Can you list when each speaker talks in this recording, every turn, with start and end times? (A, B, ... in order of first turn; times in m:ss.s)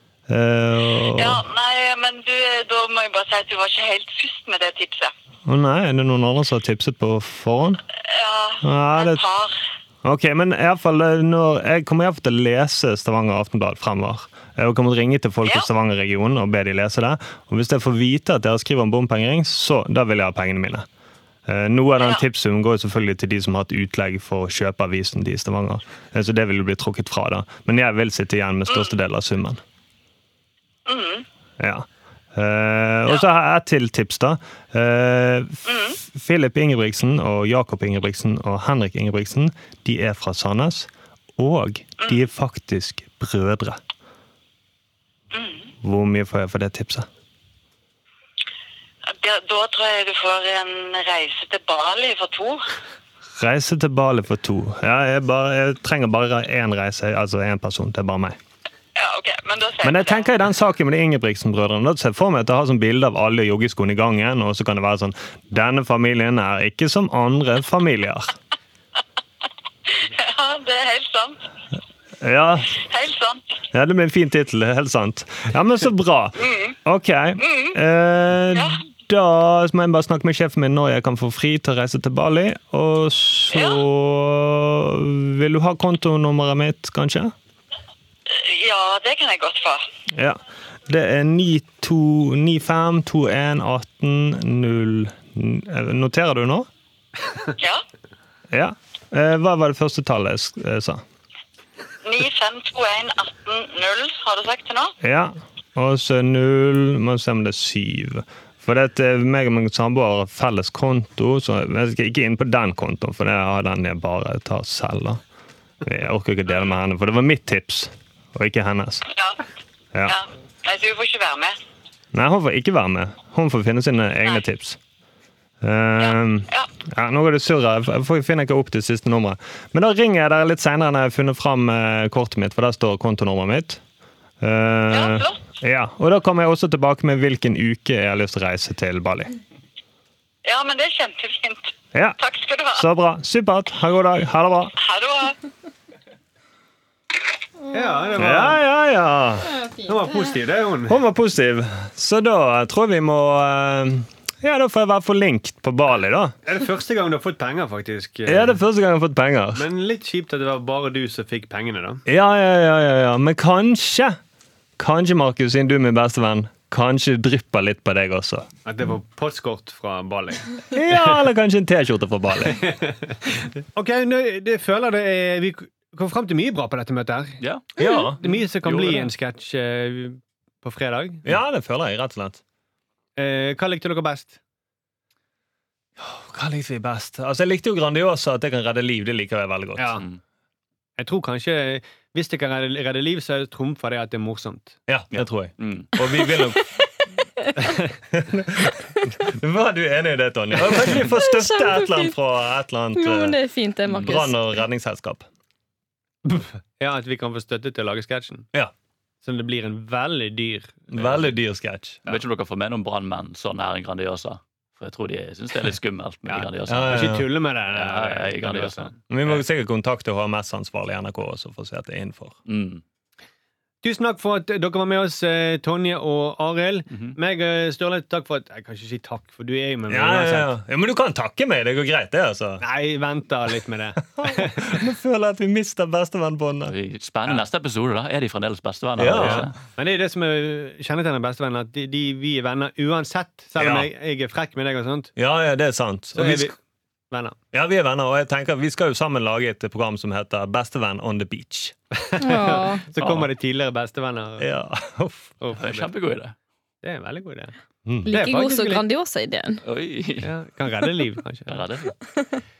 0:00.3-0:01.4 A
0:01.1-0:05.1 B
0:05.5-0:07.8 A
0:08.0-0:09.5 B
0:08.6-0:09.2 A
0:10.0-0:20.8 A
0:21.5-0:29.6 A
0:30.8-0:31.2 B
0:31.6-0:43.8 A
0:35.6-0:36.0 B
0:45.3-0:45.7 B
0:45.8-0:47.1 A
0:49.1-0:52.6 B
0:53.4-0:58.4 A
0:59.0-1:00.3 B
0:59.8-1:08.3 A
1:09.9-1:11.4 B
1:12.2-1:12.8 A
1:12.8-1:13.6 B
1:13.7-1:27.3 A
1:16.4-1:16.8 B
1:17.4-1:17.8 B
1:18.5-1:18.8 B
1:23.5-1:23.8 B
1:28.3-1:29.8 B
1:30.1-1:36.7 A
1:37.6-1:37.8 B
1:38.5-1:41.0 A
1:42.0-1:44.9 B
1:45.0-1:55.2 A
1:55.8-1:59.0 A
2:00.0-2:01.6 B
2:02.1-2:04.8 A
2:05.6-2:13.8 A
2:06.0-2:06.7 B
2:14.4-2:19.3 A
2:14.9-2:15.4 B
2:20.4-2:22.8 B
2:21.9-2:22.2 A
2:22.7-2:24.7 A
2:24.8-2:25.4 B
2:27.7-2:28.6 C
2:28.1-2:29.5 A
2:29.8-2:31.0 C
2:30.9-2:36.3 A
2:36.4-2:38.6 C
2:38.2-2:39.6 A
2:39.5-2:42.0 C
2:42.0-2:44.2 A
2:44.8-2:48.5 A
2:48.6-2:50.6 C
2:50.7-2:52.6 A
2:52.5-3:01.2 C
2:57.8-2:58.2 A
2:58.2-2:59.1 D
3:01.2-3:02.4 A
3:03.2-3:04.4 C
3:06.0-3:10.0 A
3:09.8-3:10.0 C
3:11.0-3:14.8 C
3:14.9-3:16.7 A
3:15.1-3:15.9 D
3:18.1-3:23.4 A
3:21.0-3:22.1 E
3:22.9-3:24.4 E
3:23.9-3:24.1 D
3:23.9-3:25.3 A
3:26.2-3:28.5 C
3:29.2-3:31.2 C
3:30.9-3:32.0 A
3:32.0-3:39.3 D
3:36.3-3:39.0 C
3:36.7-3:37.3 A
3:39.1-3:42.4 A
3:42.4-3:42.8 D
3:43.8-3:50.5 C
3:46.9-3:47.2 D
3:49.9-3:52.6 A
3:52.6-3:54.8 C
3:54.2-3:56.7 A
3:56.6-3:59.5 D
3:59.0-3:59.5 A
3:59.2-4:05.1 C
4:03.6-4:03.9 A
4:05.2-4:06.5 A
4:06.2-4:06.5 C
4:07.1-4:07.4 C
4:07.5-4:11.7 A
4:12.0-4:14.5 C
4:12.2-4:12.8 E
4:13.0-4:13.3 D
4:14.4-4:15.4 A
4:15.4-4:15.9 C
4:15.6-4:16.3 D
4:16.8-4:17.5 C
4:18.0-4:19.6 E
4:18.1-4:18.8 C
4:19.6-4:20.3 D
4:20.2-4:21.6 C
4:21.5-4:21.9 D
4:22.1-4:22.4 E